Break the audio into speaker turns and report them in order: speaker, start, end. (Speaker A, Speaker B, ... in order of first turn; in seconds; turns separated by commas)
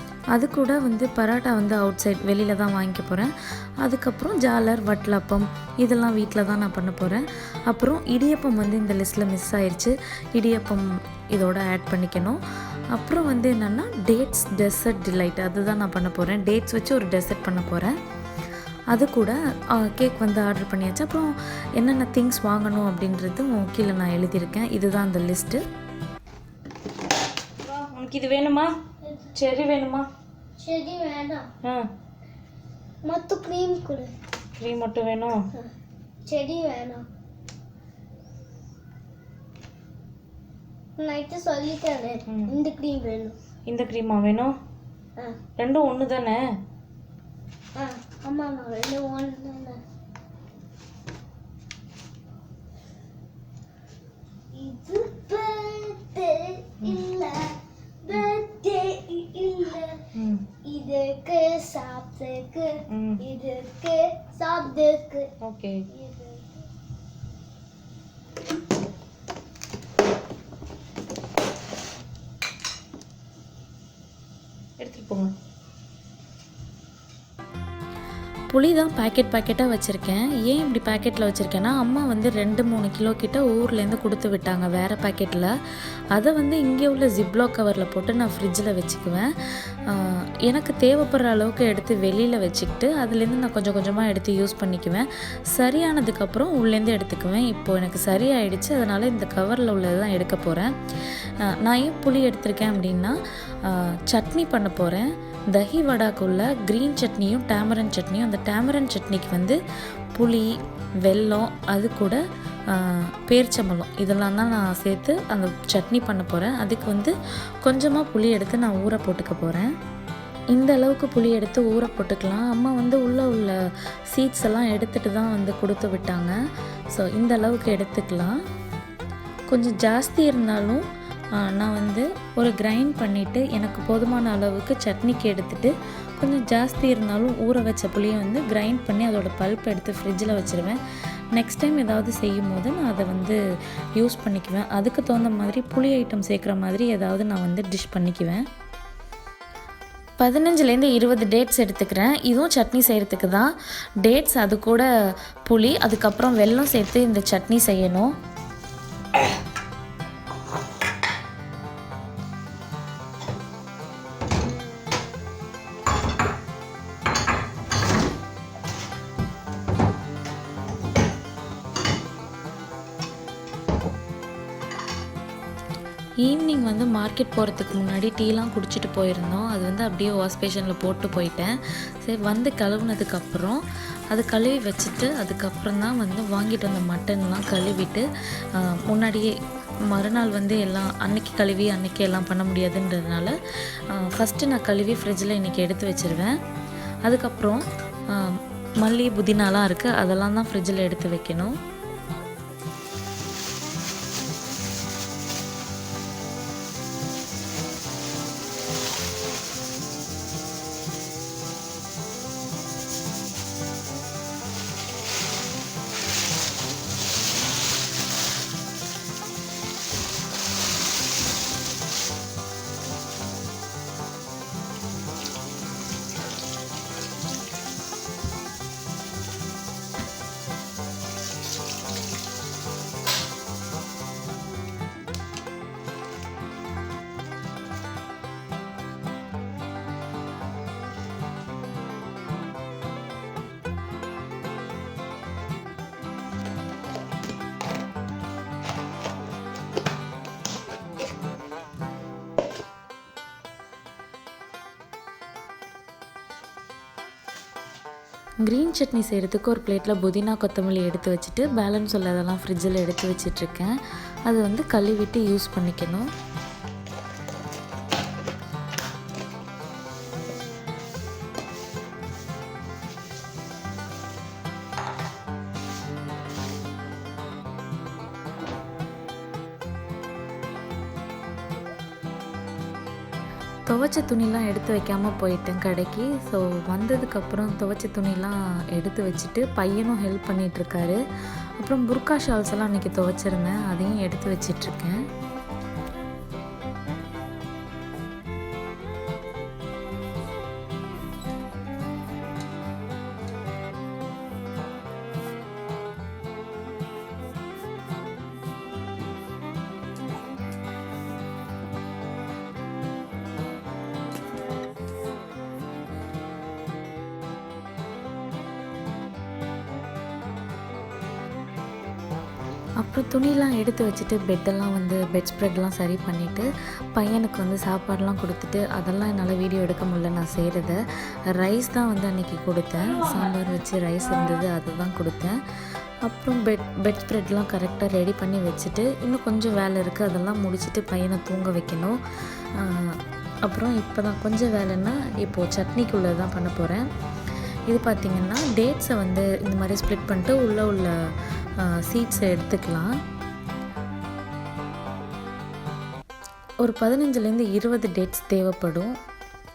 Speaker A: 0.3-3.3, Speaker A: 3.8-12.4, Speaker A: 12.9-17.9, Speaker A: 18.9-25.6, Speaker B: 27.6-28.7, Speaker C: 29.0-29.3, Speaker B: 29.3-30.1, Speaker C: 30.6-31.5, Speaker C: 33.0-34.1, Speaker B: 34.6-35.4, Speaker C: 36.2-37.0, Speaker C: 41.0-43.4, Speaker B: 43.7-44.5, Speaker B: 45.6-46.4, Speaker C: 47.8-49.8, Speaker C: 54.5-60.0, Speaker B: 60.2-60.4, Speaker C: 60.6-65.3, Speaker B: 62.9-63.2, Speaker B: 65.4-65.8, Speaker C: 65.9-66.7, Speaker B: 74.8-75.3, Speaker A: 78.5-85.5, Speaker A: 86.1-89.3, Speaker A: 89.9-100.7, Speaker A: 101.4-109.6, Speaker A: 110.1-112.2, Speaker A: 112.7-119.7, Speaker A: 120.5-123.5, Speaker A: 124.1-126.3, Speaker A: 126.9-128.4, Speaker A: 129.5-130.8, Speaker A: 131.4-140.8, Speaker A: 141.3-143.4, Speaker A: 144.0-148.4, Speaker A: 150.2-153.5, Speaker A: 154.0-154.8, Speaker A: 155.4-158.1, Speaker A: 176.2-183.6, Speaker A: 184.1-189.3, Speaker A: 189.9-193.3, Speaker A: 193.9-196.3, Speaker A: 197.1-197.6, Speaker A: 198.1-201.6, Speaker A: 258.4-266.1, Speaker A: 283.7-291.0, Speaker A: 291.6-295.1, Speaker A: 322.8-335.4, Speaker B: 332.8-333.3, Speaker B: 334.0-334.4, Speaker A: 336.1-342.0, Speaker A: 342.5-346.8, Speaker A: 347.7-350.9, Speaker A: 351.6-352.9, Speaker A: 356.6-358.9